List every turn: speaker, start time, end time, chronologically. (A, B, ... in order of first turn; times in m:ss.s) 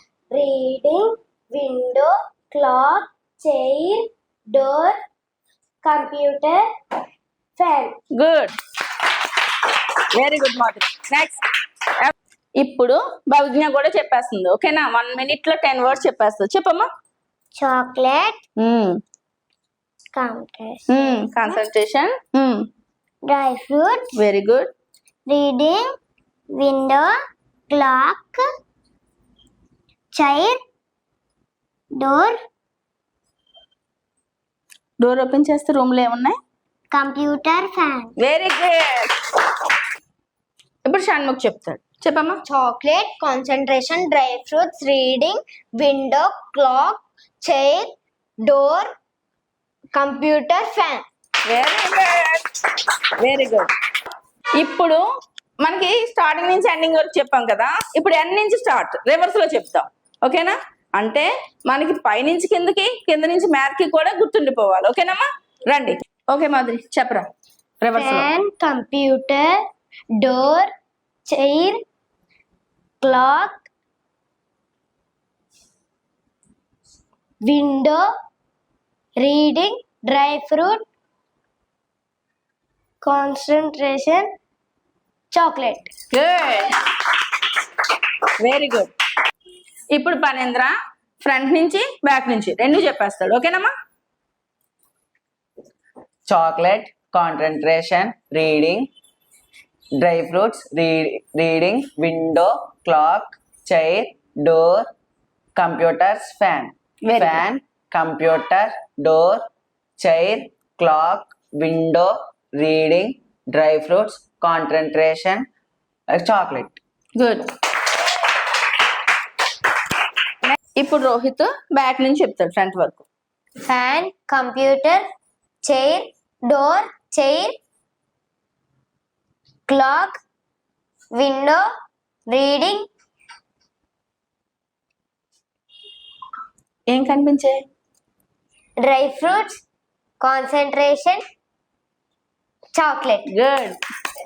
0:00.3-0:05.0 A
0:05.8-0:06.6 A
0:07.6-0:08.0 A
0:08.2-0:08.5 B
0:10.1-0:11.4 B
0:11.9-0:16.9 B
0:17.5-0:18.4 A
0:18.6-0:19.0 B
0:20.1-0:21.6 A
0:20.9-0:22.6 B
0:23.2-0:24.2 A
0:24.1-0:24.7 B
0:25.3-0:25.9 A
0:26.5-0:27.1 A
0:27.7-0:28.4 A
0:30.1-0:30.6 A
0:31.9-0:32.4 A
0:35.0-0:36.4 B
0:36.9-0:38.2 A
0:38.2-0:39.4 B
0:40.8-0:42.4 B
0:42.4-0:49.0 A
0:49.9-0:51.0 A
0:51.4-0:53.7 B
0:54.6-0:55.0 B
0:55.6-1:07.3 B
1:07.8-1:08.3 B
1:07.9-1:09.6 A
1:10.2-1:10.7 A
1:11.3-1:11.8 A
1:13.0-1:13.7 A
1:17.4-1:18.1 A
1:19.2-1:20.8 A
1:23.0-1:24.2 A
1:25.3-1:25.9 A
1:26.1-1:26.7 B
1:28.4-1:28.9 B
1:29.9-1:33.7 B
1:36.3-1:38.9 C
1:40.0-1:44.9 C
1:45.5-1:49.4 C
1:47.0-1:47.4 B
1:50.0-1:55.5 C
1:56.1-1:56.8 C
1:57.2-1:57.4 B
2:00.4-2:03.1 B
2:03.6-2:05.0 A
2:05.6-2:07.6 A
2:09.7-2:10.2 A
2:11.1-2:11.6 A
2:12.3-2:12.9 A
2:16.9-2:17.6 B
2:18.8-2:19.6 A
2:20.2-2:21.2 A
2:22.7-2:23.3 A
2:23.3-2:23.8 B